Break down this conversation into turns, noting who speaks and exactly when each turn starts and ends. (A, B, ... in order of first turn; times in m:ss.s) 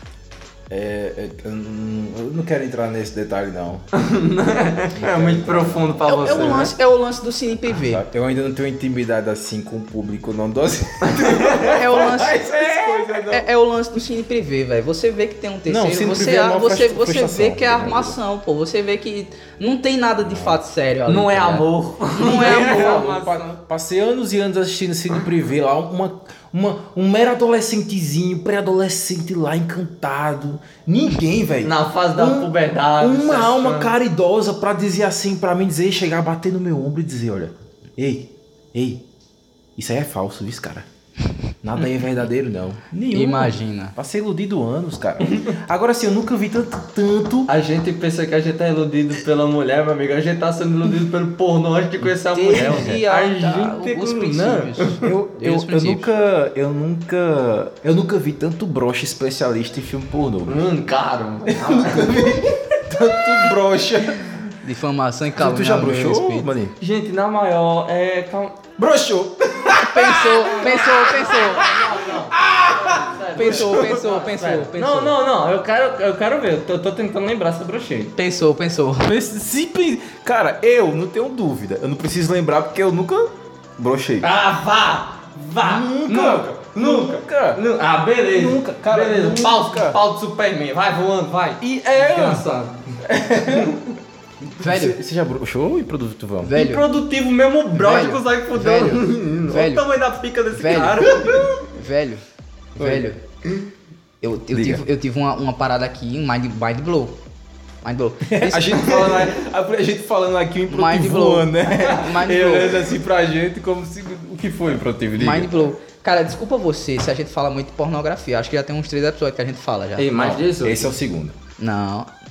0:00.7-0:03.8 A
0:03.9-0:06.7 B
0:04.9-0:06.7 A
0:06.1-0:08.0 C
0:07.7-0:13.5 A
0:11.0-0:11.7 B
0:11.7-0:23.0 C
0:15.7-0:18.2 A
0:20.2-0:20.6 A
0:21.0-0:23.5 B
0:22.2-0:39.0 A
0:31.6-0:33.9 B
0:39.8-0:40.9 A
0:41.6-0:47.5 A
0:43.1-0:43.9 C
0:47.5-0:55.1 B
0:52.3-0:56.1 C
0:52.5-0:53.0 A
0:55.0-1:00.6 A
1:00.4-1:02.5 B
1:01.5-1:04.5 A
1:04.6-1:06.5 C
1:05.3-1:06.7 A
1:06.8-1:08.7 B
1:08.8-1:13.9 A
1:09.7-1:11.7 C
1:10.4-1:18.1 B
1:13.3-1:15.1 C
1:18.2-1:19.1 C
1:19.0-1:24.3 A
1:24.2-1:33.8 B
1:25.6-1:27.6 A
1:28.3-1:30.0 A
1:31.6-1:32.4 A
1:33.1-1:33.8 A
1:34.5-1:35.0 C
1:34.6-1:36.6 A
1:36.4-1:36.8 C
1:36.5-1:41.6 B
1:37.7-1:39.9 C
1:40.5-1:42.2 C
1:42.8-1:43.2 C
1:42.8-1:43.0 A
1:44.2-1:47.2 C
1:44.5-1:44.8 A
1:47.8-1:48.8 C
1:48.2-1:55.7 A
1:48.8-1:49.4 B
1:50.7-1:52.8 C
1:55.2-2:00.1 C
2:00.0-2:00.9 B
2:00.1-2:01.4 A
2:01.6-2:02.1 C